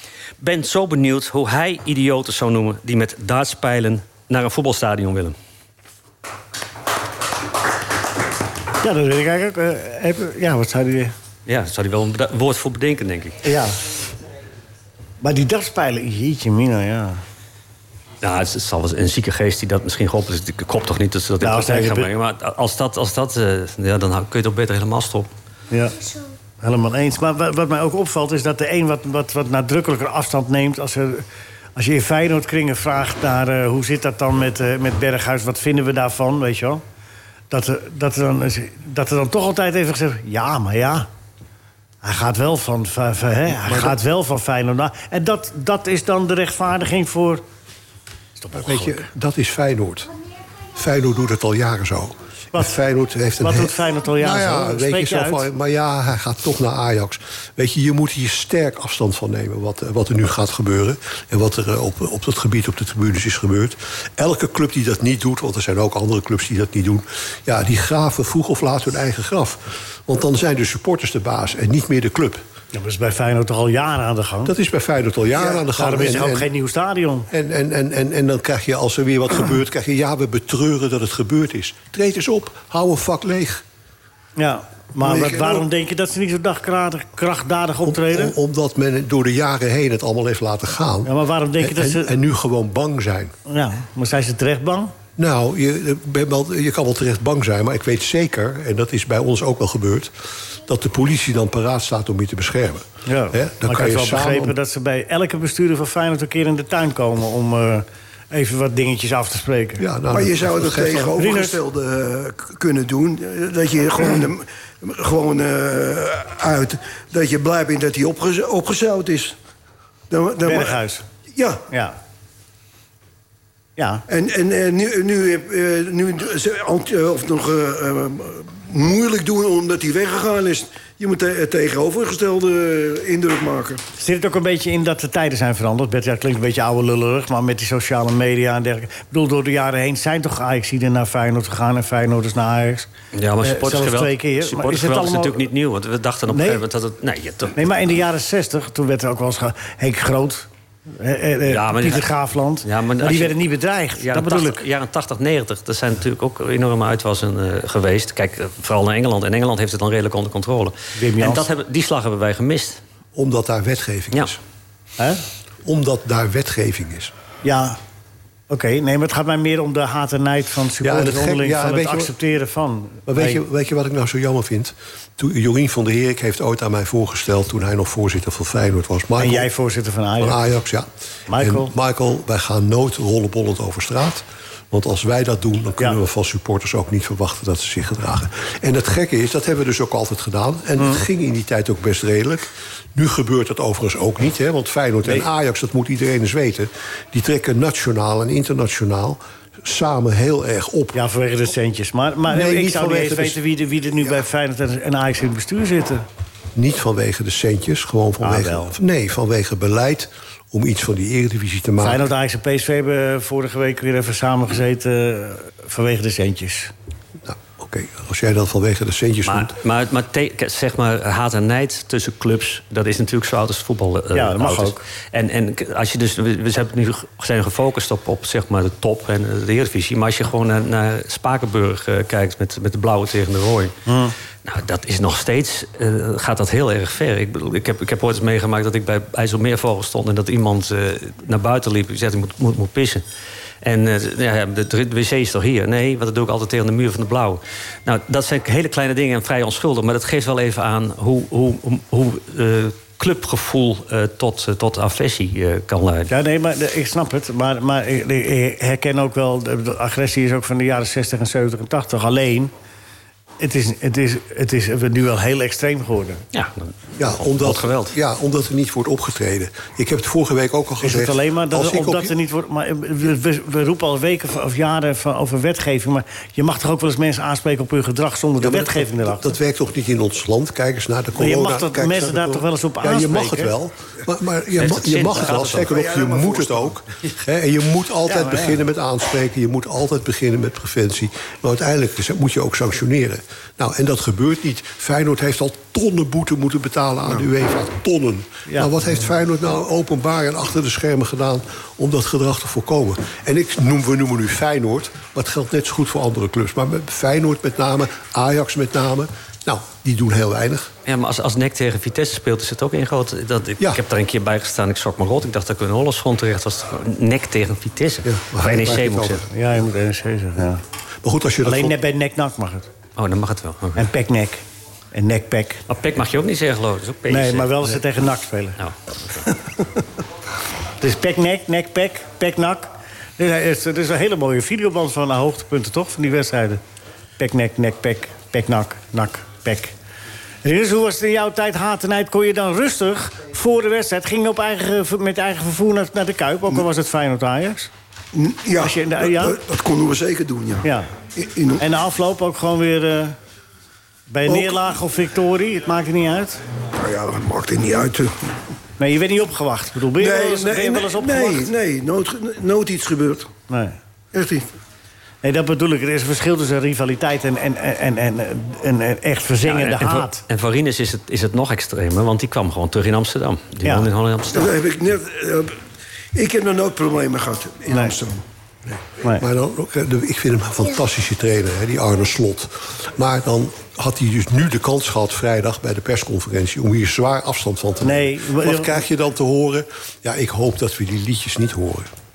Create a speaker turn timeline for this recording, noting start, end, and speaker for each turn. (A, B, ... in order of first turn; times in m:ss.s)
0:00.4-0:05.4 A
0:08.8-0:11.1 B
0:11.5-0:13.4 A
0:13.4-0:13.8 B
0:15.2-0:17.2 B
0:18.2-0:25.3 A
0:21.4-0:22.1 B
0:25.7-0:26.0 B
0:26.6-0:31.2 B
0:31.8-0:36.8 B
0:37.5-0:41.1 B
0:42.0-0:47.4 B
0:43.6-0:44.0 C
0:48.4-0:49.1 B
0:48.6-0:50.1 C
0:50.7-1:12.4 C
0:53.4-0:55.5 B
1:12.7-1:14.5 B
1:14.4-1:16.5 C
1:15.7-1:17.3 B
1:17.3-1:23.6 C
1:24.4-1:28.4 B
1:25.0-1:25.7 D
1:27.8-1:33.4 C
1:31.0-1:32.2 B
1:33.5-1:34.9 B
1:35.2-1:44.6 C
1:43.1-1:49.8 B
1:49.8-1:51.2 C
1:50.1-1:59.4 D
1:51.2-1:51.6 B
2:00.1-2:00.8 D
2:00.4-2:01.1 B
2:01.3-2:01.6 D
2:01.7-2:02.0 B
2:03.8-2:04.0 B
2:04.1-2:13.8 D
2:14.0-2:22.9 B
2:23.1-2:27.6 A
2:23.4-2:25.5 B
2:26.3-2:26.6 B
2:27.6-2:34.6 B
2:31.5-2:32.1 A
2:32.6-2:33.4 A
2:34.0-2:42.8 A
2:41.0-2:41.5 B
2:43.2-2:44.4 C
2:45.6-2:47.1 C
2:47.4-2:47.8 B
2:48.5-2:53.4 B
2:50.8-2:52.1 C
2:53.1-2:59.5 C
2:59.2-3:00.4 B
3:00.2-3:21.0 C
3:01.3-3:01.7 B
3:20.9-3:26.0 B
3:22.3-3:23.4 C
3:26.6-3:32.0 C
3:28.2-3:28.8 B
3:31.8-3:36.7 B
3:37.2-3:39.5 C
3:39.3-3:53.8 A
3:44.1-3:44.8 B
3:53.9-3:54.2 B
3:54.4-4:03.0 A
4:03.6-4:16.1 A
4:16.1-4:22.5 B
4:23.4-4:26.2 B
4:26.3-4:28.0 A
4:27.0-4:32.1 C
4:30.8-4:39.4 B
4:38.4-5:10.7 C
4:41.2-4:43.5 B
4:44.6-4:45.7 A
4:45.6-4:46.7 D
4:48.1-4:48.6 B
4:58.5-4:58.7 B
5:10.9-5:19.2 A
5:18.0-5:19.2 C
5:19.3-5:20.6 B
5:21.0-5:21.8 C
5:21.4-5:22.7 B
5:23.0-5:23.9 A
5:23.8-5:25.6 B
5:25.7-5:27.7 A
5:27.1-5:28.6 B
5:28.6-5:29.2 A
5:30.8-5:36.6 B
5:37.2-5:39.7 B
5:40.4-5:47.7 B
5:48.1-5:51.6 D
5:48.6-5:49.4 B
5:50.6-5:50.9 B
5:51.6-5:53.2 B
5:54.1-5:56.4 B
5:54.3-5:54.6 D
5:56.8-5:58.3 D
5:58.8-6:01.5 B
6:00.0-6:03.3 D
6:03.5-6:03.8 B
6:04.1-6:04.5 D
6:05.2-6:10.2 B
6:09.4-6:14.5 A
6:14.3-6:15.6 D
6:16.1-6:18.2 D
6:17.7-6:18.0 B
6:19.2-6:31.9 C
6:27.8-6:28.8 B